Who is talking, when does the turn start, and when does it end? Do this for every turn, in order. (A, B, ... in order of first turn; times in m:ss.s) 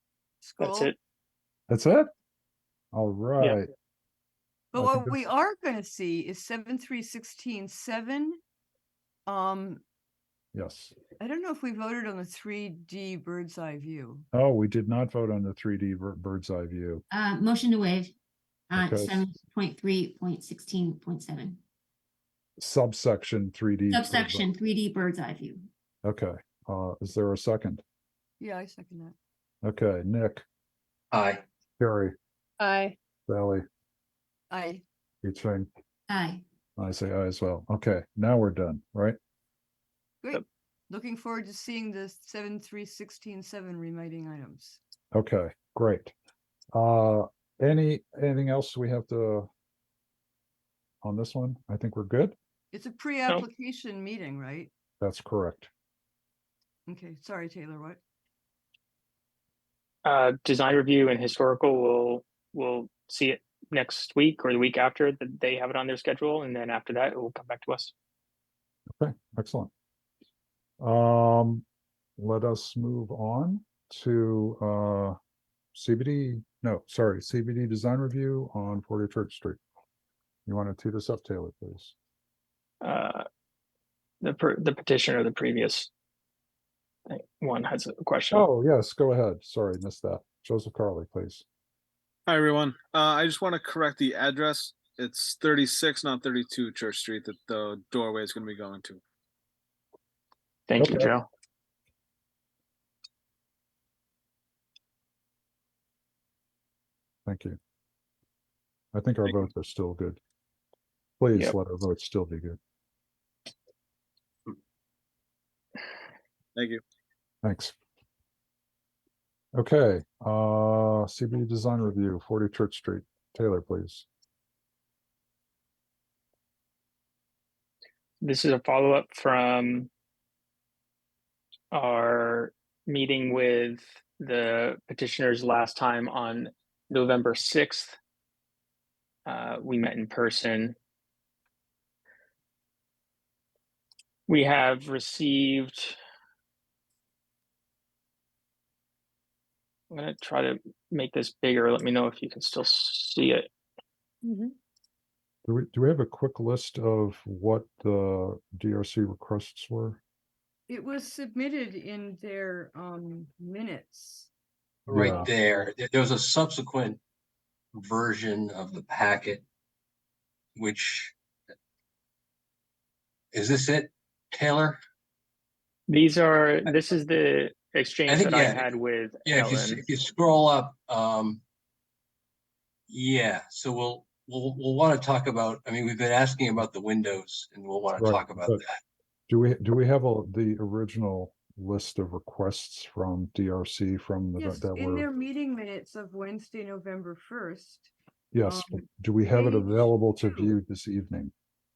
0:00.4-0:00.9 A
0:00.6-0:01.0 B
0:01.7-0:02.1 C
0:02.9-0:03.7 C
0:04.7-0:08.4 A
0:04.8-0:05.3 C
0:09.3-0:09.8 A
0:10.5-0:11.0 C
0:11.2-0:14.2 A
0:14.3-0:17.0 C
0:17.1-0:18.1 D
0:18.7-0:21.6 D
0:18.8-0:19.2 C
0:22.6-0:24.5 C
0:23.9-0:25.7 D
0:26.0-0:27.8 C
0:28.4-0:29.1 A
0:29.6-0:30.4 C
0:31.1-0:31.4 E
0:31.8-0:32.2 C
0:33.3-0:33.6 C
0:34.5-0:34.8 A
0:35.2-0:35.7 C
0:36.1-0:36.4 D
0:36.8-0:39.2 C
0:40.2-0:44.8 A
0:45.1-0:46.1 C
0:46.7-0:49.5 C
0:51.0-0:52.4 C
0:52.7-0:54.7 A
0:55.0-0:55.7 C
0:56.9-0:58.0 A
1:00.0-1:07.9 B
1:09.0-1:09.7 C
1:10.8-1:11.6 C
1:12.2-1:15.2 C
1:15.8-1:19.6 C
1:20.5-1:21.9 C
1:22.8-1:23.3 B
1:24.2-1:25.9 B
1:27.1-1:28.4 B
1:28.3-1:31.4 C
1:32.3-1:39.0 F
1:40.7-1:41.3 B
1:40.8-1:41.1 C
1:47.3-1:47.6 C
1:48.9-1:50.2 C
1:51.2-1:52.6 C
1:56.6-1:56.8 F
1:57.4-1:57.8 C
1:59.5-2:04.1 C
2:08.2-2:09.9 B
2:11.7-2:18.0 B
2:19.3-2:20.8 B
2:24.3-2:26.0 B
2:29.9-2:33.5 B
2:35.4-2:40.0 C
2:40.7-2:44.3 A
2:44.9-2:47.0 E
2:44.9-2:45.3 C
2:47.8-2:49.4 E
2:50.6-2:51.1 E
2:53.3-2:54.8 E
2:55.9-2:59.8 B
2:58.1-2:58.6 E
2:59.3-3:01.4 E
3:02.9-3:08.8 E
3:08.0-3:08.6 C
3:09.3-3:15.1 C
3:14.4-3:17.9 A
3:18.3-3:21.3 C
3:18.5-3:18.8 A
3:19.3-3:20.5 A